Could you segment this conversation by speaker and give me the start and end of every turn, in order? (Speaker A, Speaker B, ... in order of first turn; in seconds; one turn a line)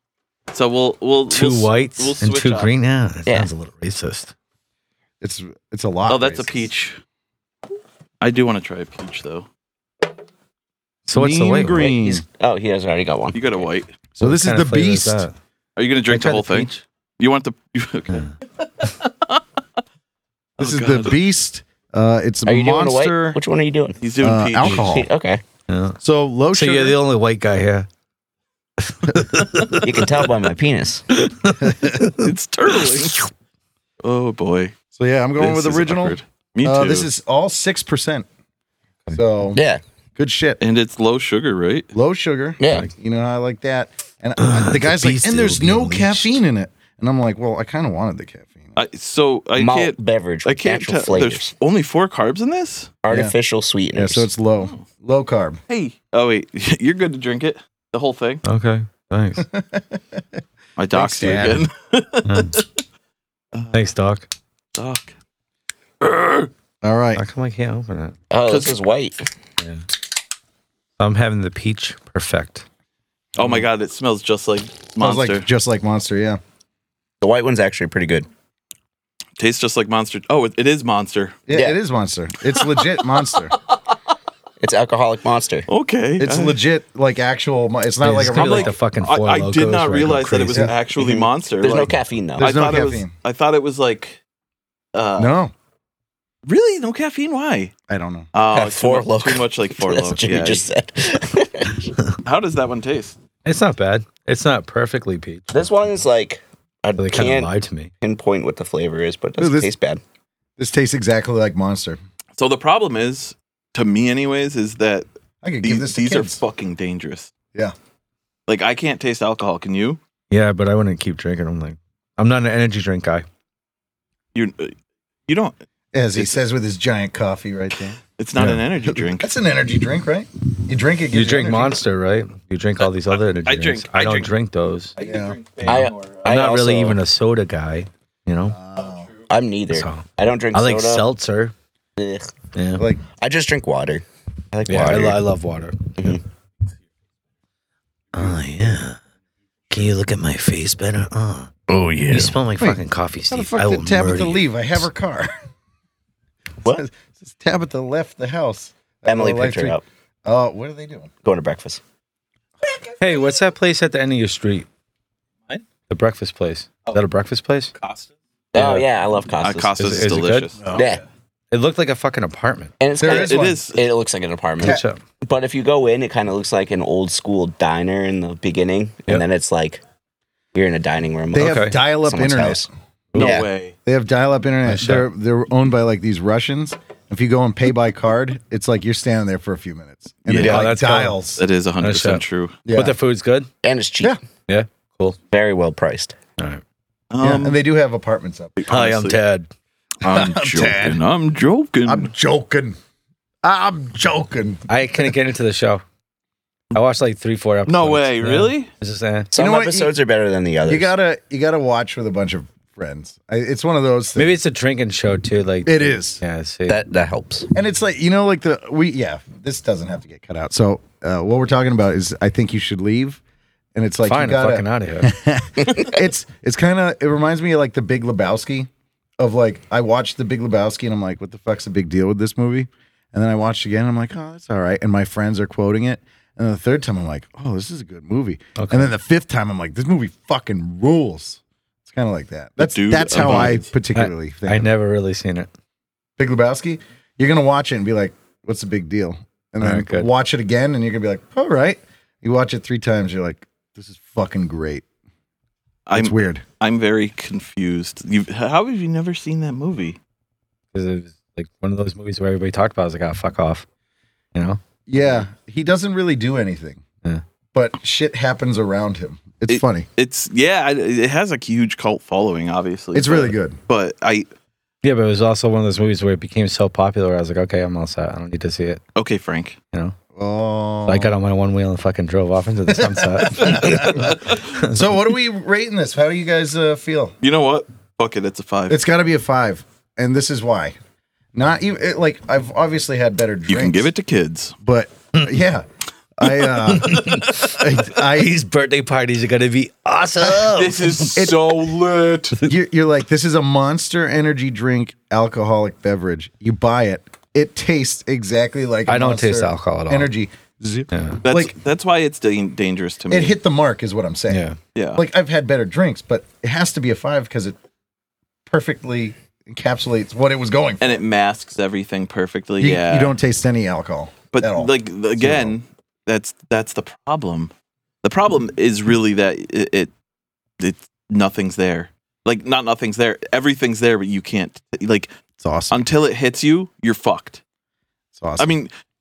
Speaker A: 0.5-2.7
Speaker B: 1.3-4.3
Speaker C: 5.2-6.5
Speaker A: 6.1-7.0
Speaker A: 8.2-9.5
Speaker B: 11.1-11.9
Speaker C: 11.1-12.2
Speaker D: 11.7-13.7
Speaker A: 13.3-13.9
Speaker C: 14.2-15.2
Speaker B: 14.2-15.3
Speaker A: 15.8-18.3
Speaker B: 16.1-16.8
Speaker A: 18.8-19.4
Speaker C: 20.6-23.4
Speaker A: 20.6-21.2
Speaker D: 22.5-24.0
Speaker A: 24.0-25.0
Speaker C: 24.2-25.1
Speaker D: 24.7-25.4
Speaker B: 25.7-26.0
Speaker C: 26.0-27.0
Speaker B: 26.5-27.9
Speaker B: 28.9-30.1
Speaker D: 29.8-31.1
Speaker B: 31.1-32.3
Speaker C: 31.6-32.0
Speaker A: 32.2-33.2
Speaker A: 34.0-34.7
Speaker C: 35.0-38.3
Speaker A: 35.4-37.1
Speaker C: 39.1-39.6
Speaker D: 39.5-39.8
Speaker C: 40.2-40.6
Speaker A: 40.6-41.9
Speaker C: 41.9-48.8
Speaker D: 42.6-42.9
Speaker B: 44.4-46.4
Speaker A: 48.8-52.9
Speaker D: 49.6-51.5
Speaker D: 53.0-54.3
Speaker C: 53.1-53.4
Speaker C: 54.0-55.6
Speaker A: 55.7-58.4
Speaker B: 58.4-59.5
Speaker C: 59.4-60.2
Speaker A: 60.8-62.7
Speaker C: 60.9-61.7
Speaker B: 62.2-62.6
Speaker A: 63.5-63.9
Speaker B: 63.7-64.3
Speaker A: 64.8-65.2
Speaker A: 66.0-66.5
Speaker C: 66.8-67.2
Speaker B: 67.2-68.2
Speaker D: 68.3-69.2
Speaker A: 68.5-68.8
Speaker B: 71.0-72.7
Speaker C: 73.4-73.7
Speaker A: 73.4-75.5
Speaker C: 75.0-76.4
Speaker D: 77.2-78.3
Speaker A: 79.4-81.4
Speaker C: 81.5-83.6
Speaker D: 81.5-81.8
Speaker A: 82.5-83.8
Speaker D: 84.6-85.7
Speaker A: 85.7-86.6
Speaker C: 86.2-88.7
Speaker B: 88.0-90.7
Speaker A: 88.3-94.2
Speaker D: 91.0-92.5
Speaker C: 92.4-93.1
Speaker A: 94.9-95.3
Speaker C: 95.2-95.5
Speaker A: 96.5-97.7
Speaker C: 97.9-98.3
Speaker A: 98.3-100.7
Speaker D: 98.5-101.9
Speaker A: 102.2-103.2
Speaker B: 103.5-105.5
Speaker D: 105.5-110.0
Speaker B: 107.0-107.9
Speaker C: 109.4-109.7
Speaker C: 110.6-112.0
Speaker A: 112.4-115.1
Speaker C: 115.4-116.4
Speaker A: 115.6-117.3
Speaker A: 118.5-120.0
Speaker B: 120.3-123.2
Speaker A: 124.3-124.8
Speaker A: 125.3-125.5
Speaker C: 125.9-128.0
Speaker A: 128.2-129.3
Speaker C: 128.8-131.8
Speaker B: 131.1-134.9
Speaker A: 132.8-134.3
Speaker A: 135.0-136.3
Speaker C: 135.0-135.4
Speaker B: 135.7-138.6
Speaker D: 135.7-137.0
Speaker C: 138.5-139.1
Speaker D: 139.3-141.1
Speaker B: 139.7-141.5
Speaker D: 142.0-142.3
Speaker B: 142.5-142.9
Speaker C: 142.8-143.0
Speaker D: 143.1-145.2
Speaker B: 144.7-146.2
Speaker B: 148.2-149.0
Speaker B: 149.7-151.5
Speaker D: 151.7-152.4
Speaker B: 152.1-154.4
Speaker C: 153.3-155.3
Speaker C: 156.7-161.1
Speaker D: 159.1-159.8
Speaker D: 161.2-161.8
Speaker B: 163.0-164.7
Speaker B: 165.9-167.7
Speaker A: 167.8-168.1
Speaker D: 168.5-169.7
Speaker B: 168.6-168.9
Speaker A: 169.4-170.9
Speaker B: 169.8-170.5
Speaker C: 170.6-170.9
Speaker D: 170.7-171.0
Speaker B: 171.5-172.7
Speaker D: 172.8-179.8
Speaker C: 173.0-173.6
Speaker A: 173.0-173.9
Speaker B: 174.6-175.0
Speaker D: 180.5-183.5
Speaker C: 181.3-182.7
Speaker B: 181.4-181.8
Speaker A: 183.1-183.7
Speaker C: 183.9-191.4
Speaker B: 184.7-185.1
Speaker A: 190.3-190.7
Speaker B: 190.4-191.2
Speaker A: 191.4-192.6
Speaker B: 191.8-192.2
Speaker C: 192.7-192.9
Speaker B: 192.7-193.5
Speaker D: 193.6-194.2
Speaker B: 194.5-195.2
Speaker D: 195.3-196.1
Speaker A: 197.1-197.6
Speaker C: 197.2-198.6
Speaker A: 198.6-199.2
Speaker B: 198.7-199.5
Speaker A: 200.0-202.1
Speaker C: 200.1-201.0
Speaker C: 201.8-202.8
Speaker C: 203.4-204.6
Speaker B: 204.7-205.8
Speaker B: 206.7-209.3
Speaker A: 207.7-208.7
Speaker D: 209.3-210.9
Speaker C: 209.4-209.9
Speaker C: 210.7-214.3
Speaker B: 214.2-216.8
Speaker C: 215.7-216.2
Speaker D: 216.7-217.5
Speaker C: 217.5-223.2
Speaker C: 223.8-244.7
Speaker B: 224.0-225.1
Speaker B: 238.6-238.9
Speaker A: 242.6-243.6
Speaker B: 243.2-245.5
Speaker C: 246.2-254.8
Speaker B: 249.6-250.1
Speaker A: 255.9-260.0
Speaker C: 255.9-256.4
Speaker B: 260.7-263.7
Speaker B: 264.4-264.6
Speaker C: 264.9-266.8
Speaker C: 267.5-269.9
Speaker A: 269.5-274.3
Speaker C: 272.9-273.6
Speaker B: 274.8-278.8
Speaker A: 278.9-279.6
Speaker C: 280.1-281.1
Speaker B: 280.9-284.8
Speaker C: 282.7-287.1
Speaker A: 283.5-284.4
Speaker A: 287.2-288.8
Speaker C: 288.7-290.8
Speaker C: 291.4-293.9
Speaker A: 293.5-294.6
Speaker C: 294.6-295.6
Speaker C: 296.2-298.4
Speaker B: 296.7-301.3
Speaker A: 297.0-297.3
Speaker A: 300.4-302.5
Speaker C: 301.1-301.5
Speaker C: 302.4-311.5
Speaker B: 308.9-310.1
Speaker B: 310.9-311.2
Speaker A: 311.2-313.4
Speaker C: 313.1-314.4
Speaker B: 314.3-314.6
Speaker A: 314.8-315.0
Speaker C: 315.0-317.6
Speaker C: 318.5-321.0
Speaker A: 320.8-323.1
Speaker C: 322.6-325.6
Speaker A: 324.3-327.5
Speaker A: 328.0-329.9
Speaker A: 330.6-335.1
Speaker C: 335.4-335.9
Speaker A: 335.7-337.4
Speaker C: 338.2-338.5
Speaker A: 338.4-338.7